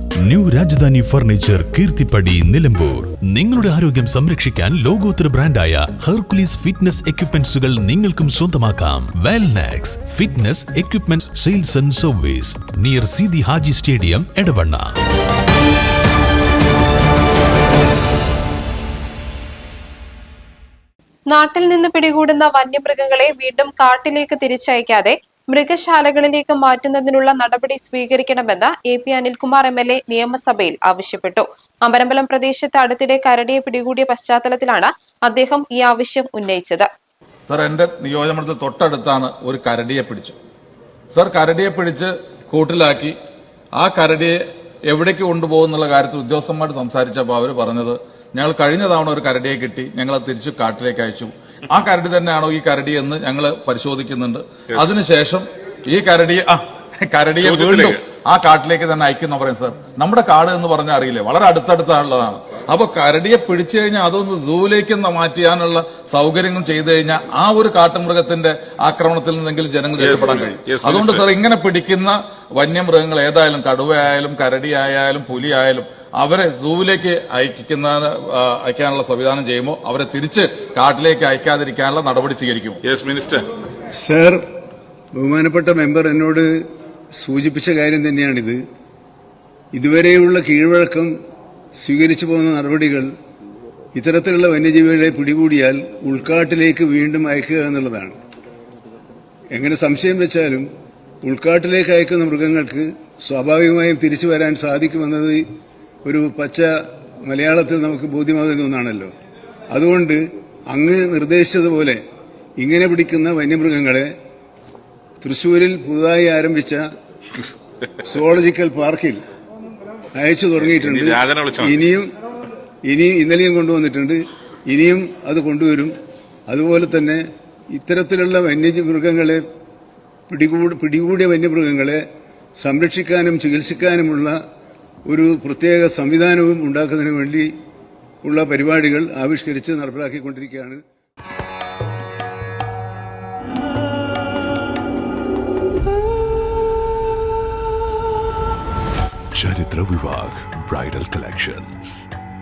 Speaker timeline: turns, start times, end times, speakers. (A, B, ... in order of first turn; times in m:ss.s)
0:00.2-0:14.9 A
0:21.3-0:36.9 B
0:37.5-0:40.4 C
0:41.1-0:43.2 C
0:43.8-1:22.8 C
0:57.4-0:58.0 D
1:10.0-1:11.2 D
1:22.8-1:23.4 D
1:24.0-1:24.4 E
1:25.2-1:26.5 E
1:27.2-1:28.6 E
1:29.7-1:31.1 E
1:31.8-1:33.1 E
1:33.9-1:38.2 E
1:39.5-1:40.7 E
1:41.2-1:45.4 E
1:46.0-1:46.7 E
1:47.2-1:49.1 E
1:49.7-1:52.0 E
1:52.6-1:54.1 E
1:55.2-1:56.8 E
1:58.0-1:59.2 E
2:00.2-2:02.1 E
2:00.8-2:01.6 D
2:02.9-2:05.9 E
2:06.5-2:07.2 E
2:07.7-2:09.4 E
2:10.3-2:12.0 E
2:12.6-2:14.4 E
2:15.1-2:17.5 E
2:18.2-2:20.8 E
2:29.4-2:32.0 A